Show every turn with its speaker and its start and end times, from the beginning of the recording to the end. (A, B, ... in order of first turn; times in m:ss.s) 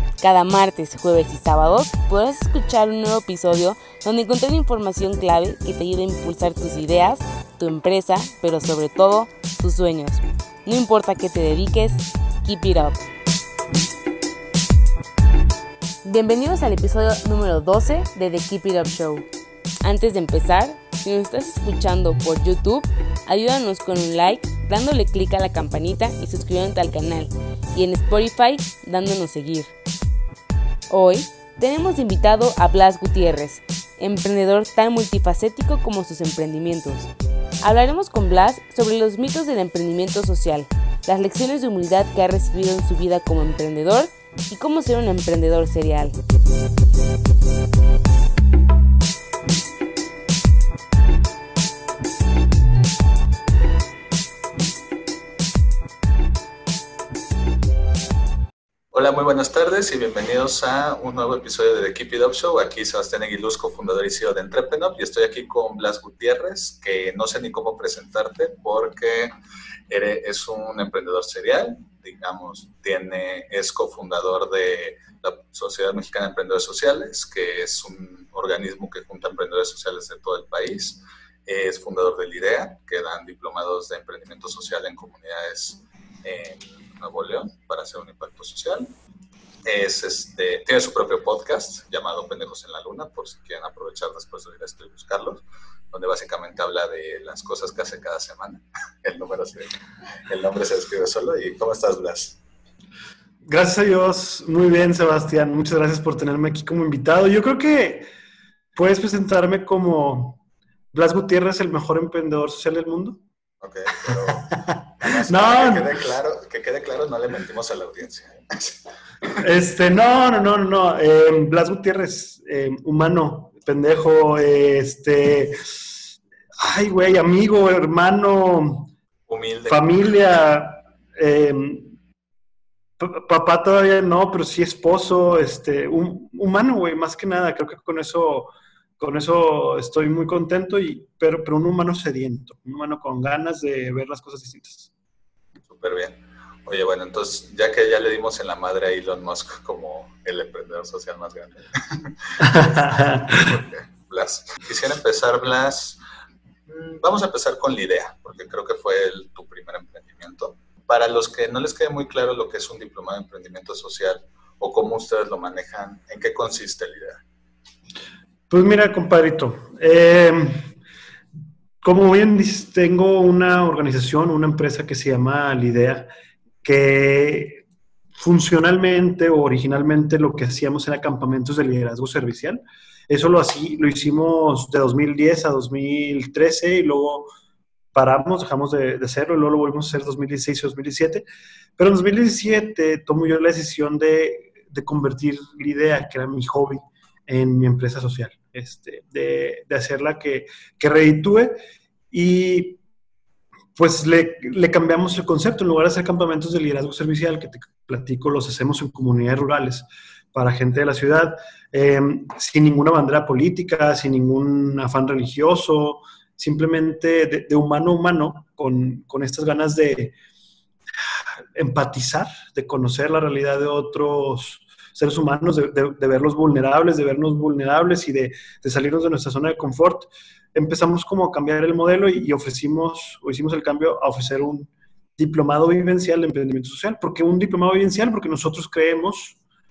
0:00.2-0:13.0 A
0:16.0-0:19.2 A
0:19.8-0:29.7 A
0:30.9-0:37.1 A
0:37.6-0:46.2 A
0:58.9-1:09.3 B
1:09.9-1:28.9 B
1:29.6-1:39.7 B
1:40.3-1:42.4 B
1:43.4-1:48.0 C
1:48.7-1:50.4 C
1:50.9-1:53.2 C
1:53.6-1:59.3 B
1:54.0-1:56.0 C
1:59.3-2:06.0 C
2:06.6-2:08.9 C
2:09.3-2:09.9 B
2:09.6-2:12.0 C
2:13.0-2:24.9 C
2:25.6-2:36.0 B
2:32.4-2:33.5 C
2:36.7-2:47.2 B
2:48.5-2:50.7 C
2:51.8-2:56.1 C
2:56.6-2:57.6 C
2:58.2-3:07.3 C
3:07.9-3:11.2 C
3:11.8-3:21.6 C
3:22.1-3:22.8 C
3:23.7-3:40.1 C
3:41.5-3:59.4 C